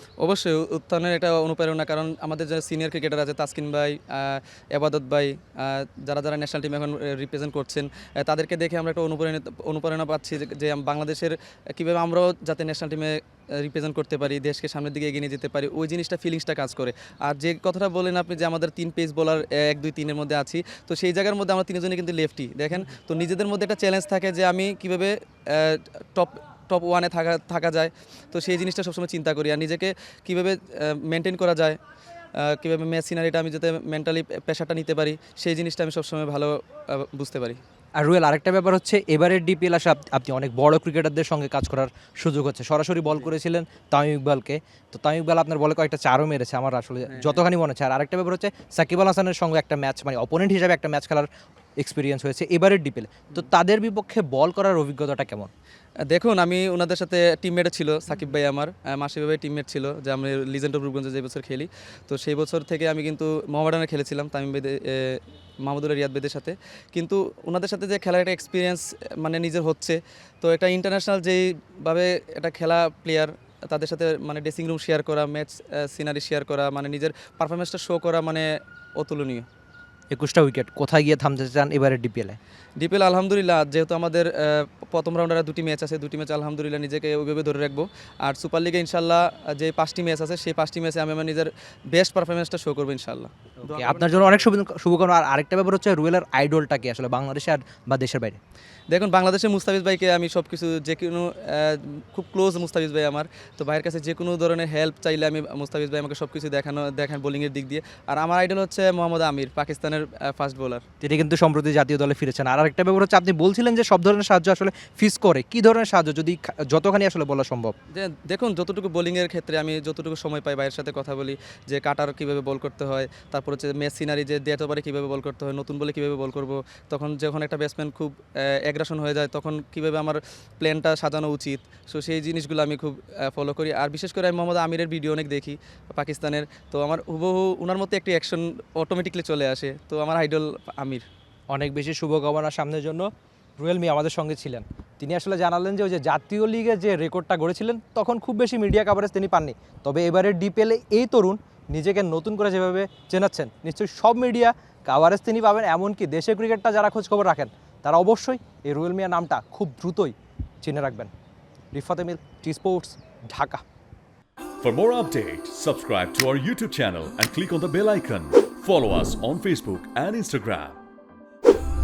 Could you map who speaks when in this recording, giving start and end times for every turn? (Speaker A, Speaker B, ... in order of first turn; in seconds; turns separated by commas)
Speaker A: 0.2-31.8, Speaker A: 32.4-37.6, Speaker B: 38.0-51.3, Speaker A: 47.0-47.4, Speaker B: 51.8-55.5, Speaker A: 56.1-78.5, Speaker A: 79.0-79.5, Speaker B: 80.1-82.4, Speaker A: 82.8-94.5, Speaker B: 93.7-98.4, Speaker A: 98.9-110.8, Speaker B: 111.0-117.7, Speaker A: 117.9-141.0, Speaker B: 141.5-161.1, Speaker B: 161.7-163.6, Speaker C: 164.6-170.8